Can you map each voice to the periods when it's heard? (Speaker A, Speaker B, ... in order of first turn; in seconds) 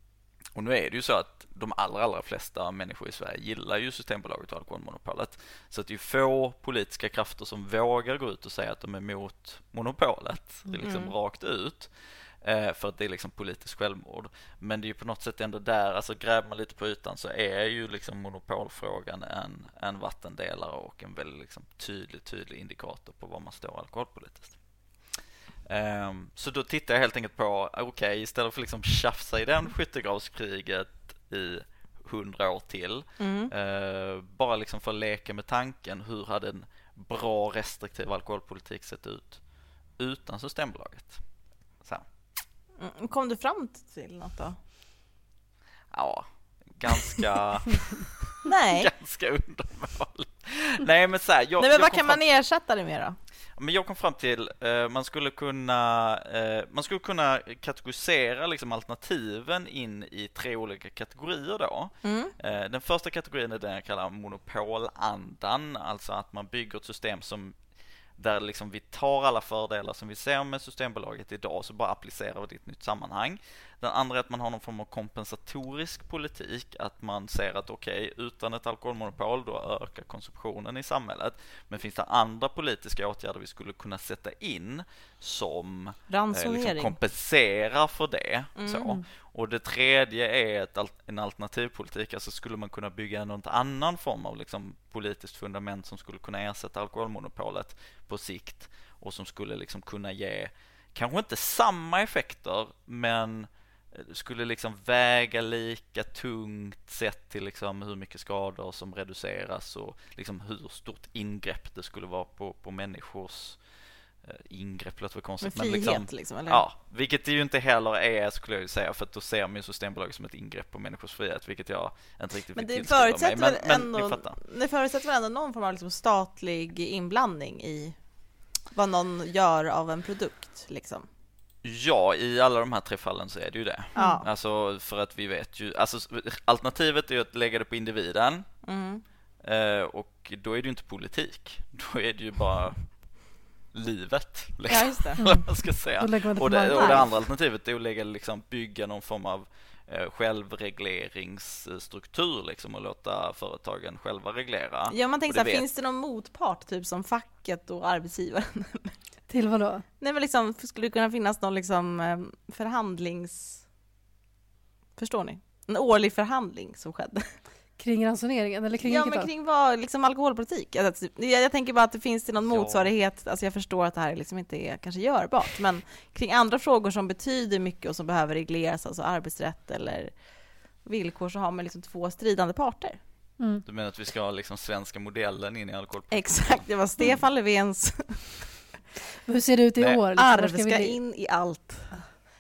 Speaker A: 0.6-42.4, 45.9-52.2, 53.6-113.7, 114.2-124.4, 131.6-138.6, 139.4-155.7, 172.4-172.9, 183.7-187.2
Speaker B: 10.8-11.2, 33.2-33.5, 42.8-44.6, 48.5-48.9, 51.6-53.2, 62.0-62.3, 86.1-87.0, 88.6-88.9, 115.4-116.6, 122.5-128.0, 128.7-131.1, 134.0-134.2, 138.6-139.0, 144.7-145.4, 146.7-147.1, 154.9-159.0, 160.0-163.7, 165.0-167.3, 168.8-183.0, 186.1-188.5, 190.2-191.9
Speaker C: 134.0-134.2, 145.2-147.1, 159.3-159.8, 167.8-169.3, 183.4-183.7, 189.3-191.0